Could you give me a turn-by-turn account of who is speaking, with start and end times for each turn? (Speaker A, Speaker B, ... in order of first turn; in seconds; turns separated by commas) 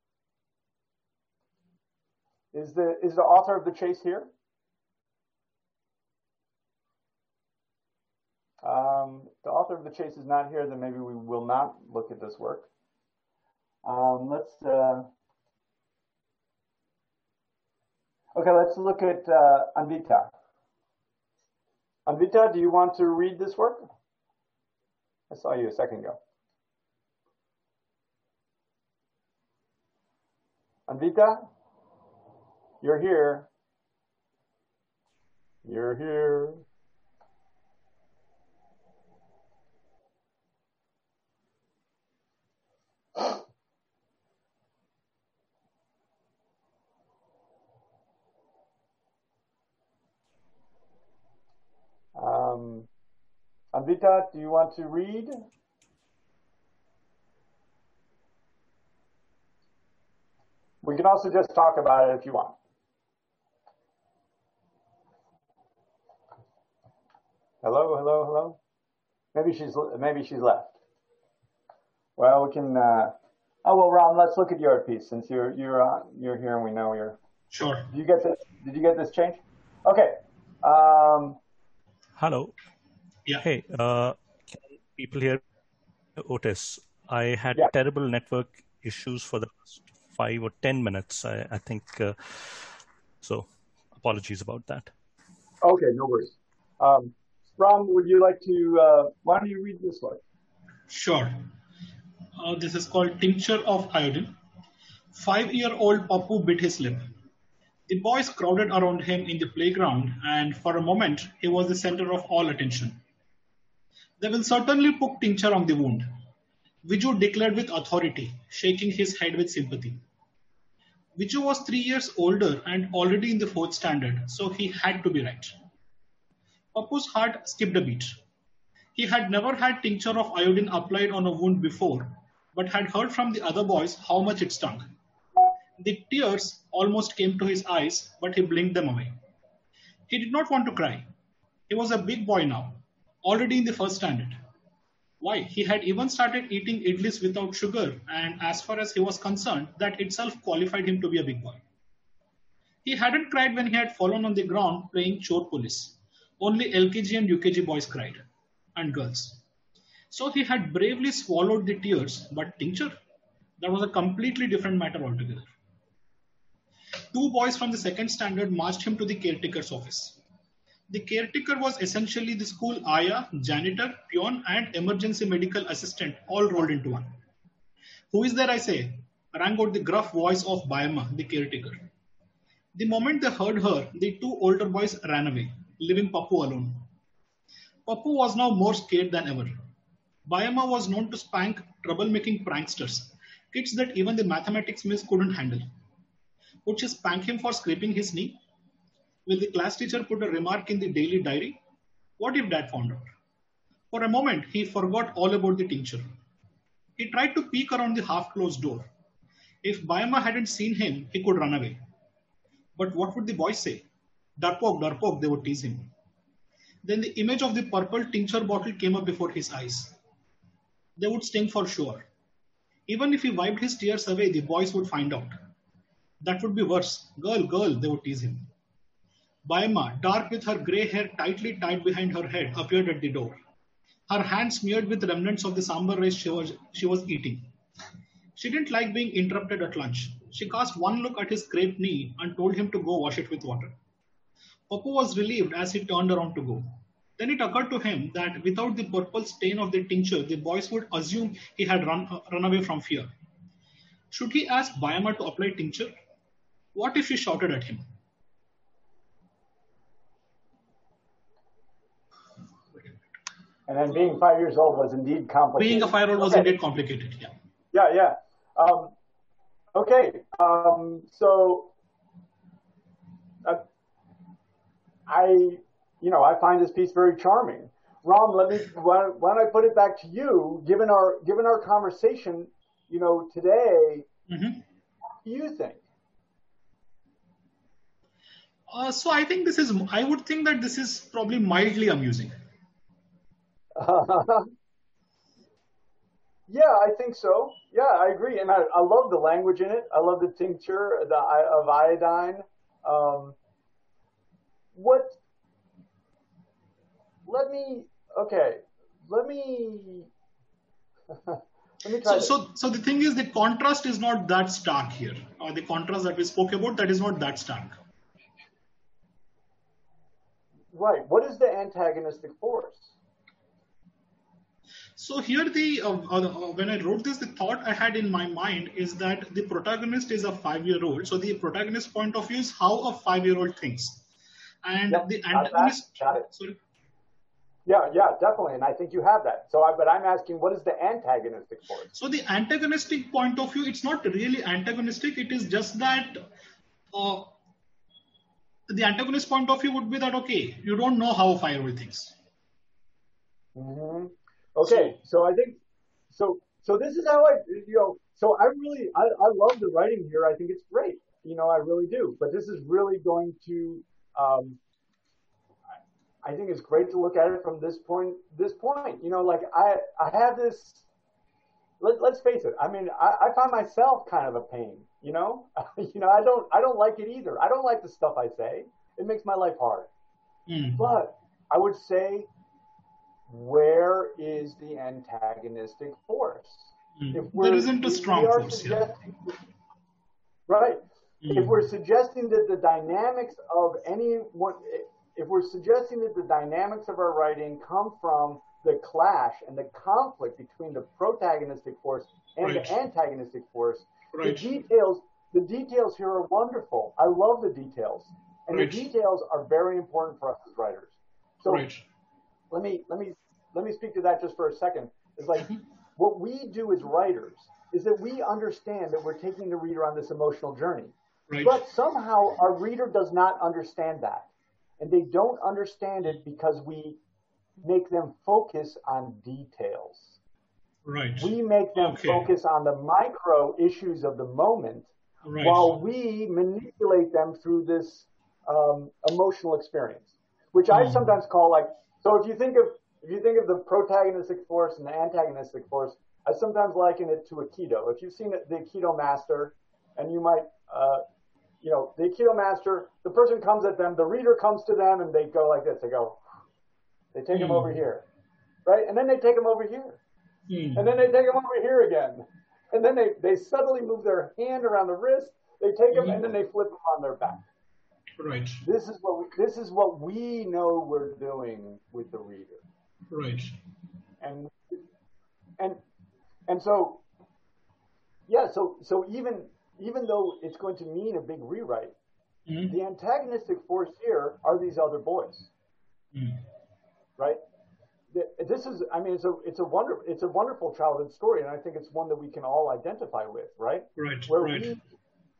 Speaker A: 2.5-4.3, Speaker A: 8.6-12.7, Speaker A: 13.8-15.1, Speaker A: 18.4-20.3, Speaker A: 22.1-23.9, Speaker A: 25.3-26.2, Speaker A: 30.9-31.5, Speaker A: 32.8-33.5, Speaker A: 35.6-36.6, Speaker A: 52.2-52.9, Speaker A: 53.7-55.5, Speaker A: 60.8-62.5, Speaker A: 67.6-68.6, Speaker A: 69.3-70.7, Speaker A: 72.2-77.2, Speaker B: 77.5-77.9, Speaker A: 77.9-81.4, Speaker C: 82.2-82.5, Speaker C: 83.4-85.4, Speaker C: 86.2-92.7, Speaker C: 93.2-94.9, Speaker A: 95.6-100.2, Speaker B: 100.9-101.5, Speaker B: 102.4-104.4, Speaker B: 105.1-107.1, Speaker B: 107.9-113.0, Speaker B: 114.2-116.1, Speaker B: 116.8-120.0, Speaker B: 121.2-125.5, Speaker B: 126.7-128.2, Speaker B: 128.9-134.9, Speaker B: 135.8-139.2, Speaker B: 140.1-141.1, Speaker B: 141.7-144.4, Speaker B: 145.2-151.6, Speaker B: 152.8-159.4, Speaker B: 160.1-163.0, Speaker B: 163.6-165.5, Speaker B: 167.1-170.2, Speaker B: 170.9-177.2, Speaker B: 178.1-181.9, Speaker B: 182.8-186.9, Speaker B: 187.9-189.7, Speaker B: 190.3-195.7, Speaker B: 196.7-198.4, Speaker B: 199.3-201.6, Speaker B: 202.2-203.1, Speaker B: 203.9-206.1, Speaker B: 207.0-208.9, Speaker B: 209.6-211.8, Speaker B: 212.8-213.9, Speaker B: 214.4-215.9, Speaker B: 216.8-220.0, Speaker B: 221.0-222.1, Speaker B: 222.9-225.5, Speaker B: 226.2-228.5, Speaker B: 229.5-233.4, Speaker B: 234.1-237.5, Speaker B: 238.3-243.8, Speaker B: 244.7-253.1, Speaker B: 254.1-255.9, Speaker B: 256.8-257.9, Speaker A: 263.7-266.5, Speaker B: 265.6-267.3, Speaker A: 267.7-268.9, Speaker A: 269.8-271.7, Speaker A: 275.1-284.1, Speaker B: 284.3-284.6, Speaker A: 285.2-285.8, Speaker B: 288.7-292.3, Speaker A: 293.8-294.5, Speaker A: 296.5-303.4, Speaker A: 304.8-305.2, Speaker A: 307.3-310.1, Speaker A: 311.3-312.4, Speaker B: 312.1-317.8, Speaker A: 320.7-322.9, Speaker B: 325.0-334.1, Speaker B: 334.6-336.6, Speaker A: 334.9-336.3, Speaker A: 337.7-341.9, Speaker B: 341.9-346.2, Speaker B: 346.9-347.3, Speaker B: 348.7-352.1, Speaker A: 353.6-355.6, Speaker B: 354.6-354.9, Speaker A: 356.1-364.6, Speaker A: 366.2-370.9, Speaker A: 371.8-379.9, Speaker B: 380.5-380.8, Speaker A: 380.8-382.3, Speaker A: 383.3-389.4, Speaker B: 387.0-388.9, Speaker A: 390.5-411.7, Speaker B: 391.2-391.6, Speaker B: 402.4-402.8, Speaker B: 404.1-404.5, Speaker B: 408.5-408.9, Speaker B: 411.5-411.8, Speaker A: 412.5-427.0, Speaker B: 421.3-421.6, Speaker A: 427.6-430.1, Speaker B: 430.9-432.3, Speaker A: 431.2-434.9, Speaker B: 435.2-435.8, Speaker A: 435.4-451.0, Speaker B: 440.7-441.0, Speaker A: 451.6-456.2, Speaker A: 457.1-458.1, Speaker B: 457.3-457.7, Speaker A: 458.7-460.0, Speaker B: 460.5-460.9, Speaker A: 460.8-467.4, Speaker B: 465.9-466.2, Speaker B: 468.2-468.6, Speaker A: 468.6-472.6, Speaker B: 473.1-473.6, Speaker A: 474.2-474.8, Speaker A: 476.5-477.0, Speaker A: 478.3-481.9, Speaker B: 482.5-482.8, Speaker A: 482.7-485.5, Speaker B: 486.1-486.4, Speaker A: 488.1-494.8, Speaker B: 494.0-494.7